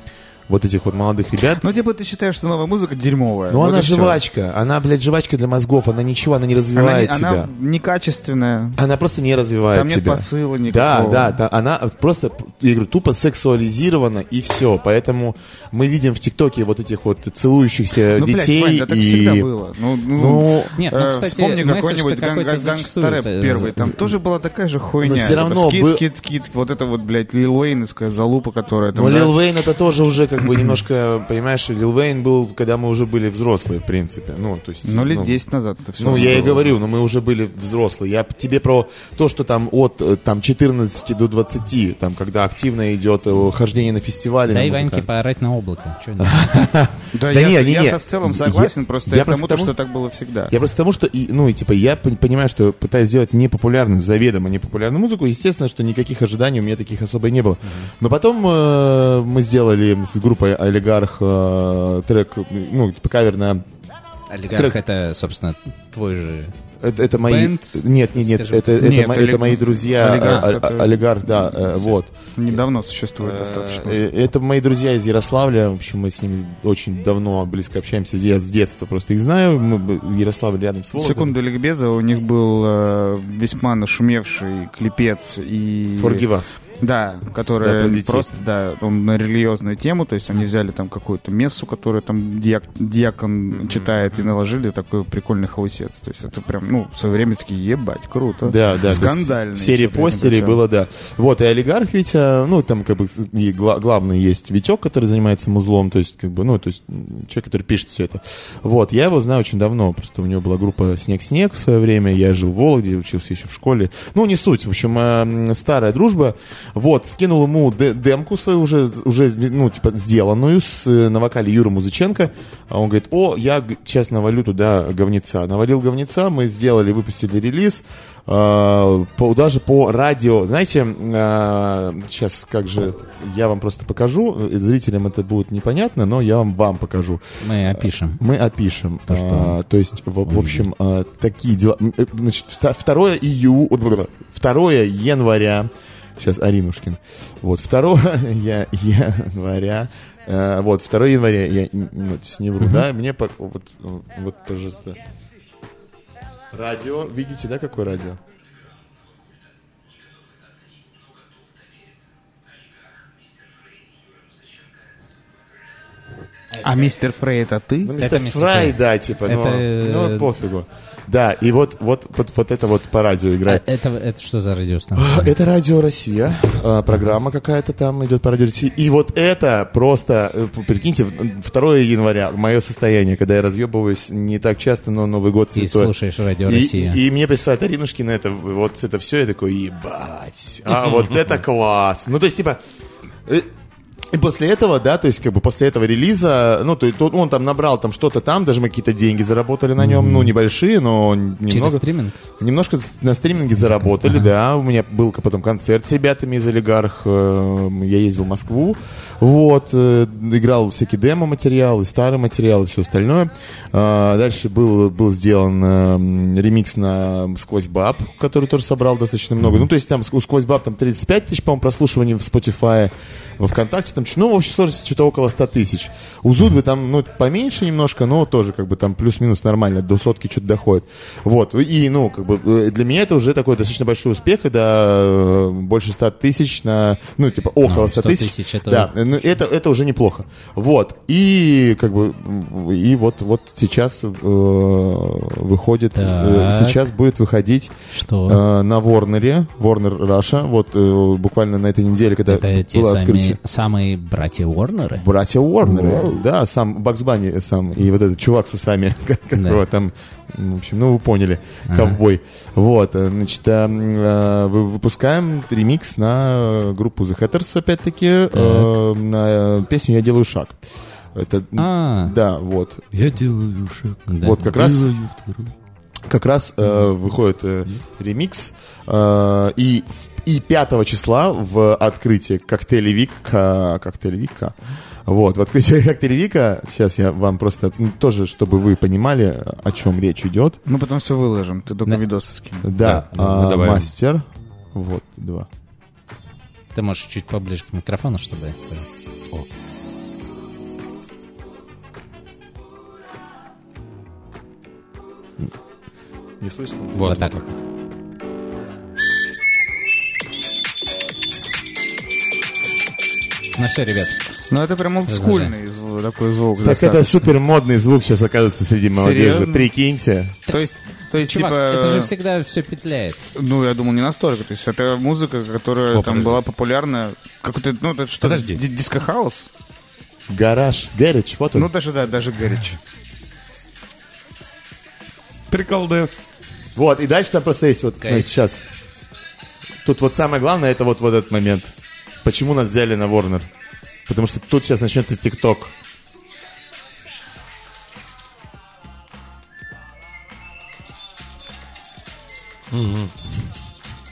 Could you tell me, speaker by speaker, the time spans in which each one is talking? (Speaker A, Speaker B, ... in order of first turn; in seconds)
Speaker A: 0.5-1.6, 3.5-7.5, 8.8-19.5, 20.1-20.7, 25.0-26.0, 28.9-35.4, 36.0-45.1, 46.2-49.7, 50.5-63.6, 64.5-64.8, 66.8-72.6, 73.2-81.3, 86.0-86.5, 87.6-88.3, 93.5-93.9, 98.4-155.0, 156.5-158.2, 167.8-173.7, 174.9-185.9, 186.4-192.6, 194.1-201.8, 202.4-247.7, 248.2-253.4, 254.9-270.6, 271.1-272.8, 274.2-274.9, 276.1-284.5, 285.1-290.6, 292.6-294.2, 294.7-295.5, 306.4-307.3, 316.6-320.4, 330.3-331.7, 336.7-338.6, 339.8-343.5, 344.1-345.7
Speaker B: 1.6-4.2, 6.7-8.8, 9.7-11.4, 18.1-29.3, 34.8-36.7, 47.1-50.5, 68.8-71.6, 72.3-74.0, 80.9-86.2, 86.8-100.6, 166.6-167.9, 290.6-292.7, 314.5-317.3, 318.9-319.7, 320.5-322.1, 323.4-329.5, 331.5-332.8
Speaker C: 20.8-23.9, 44.5-46.7, 57.6-57.9, 64.3-66.5, 67.2-69.2, 70.2-70.5, 137.4-138.2, 139.1-139.6, 140.2-140.7, 166.5-166.9, 168.0-170.3, 173.4-175.3, 185.5-187.0, 199.8-200.3, 201.5-202.2, 237.6-238.9, 245.9-246.8, 247.9-248.4, 252.3-255.0, 259.3-259.6, 261.7-262.0, 268.3-268.7, 271.6-272.1, 274.1-274.5, 296.7-298.8, 307.0-307.3, 313.6-314.2, 315.1-315.5, 320.5-323.2, 328.2-328.6, 338.0-338.3
Speaker D: 272.9-275.5, 292.8-293.9, 306.9-307.6, 325.9-326.4, 335.5-336.1, 352.7-353.1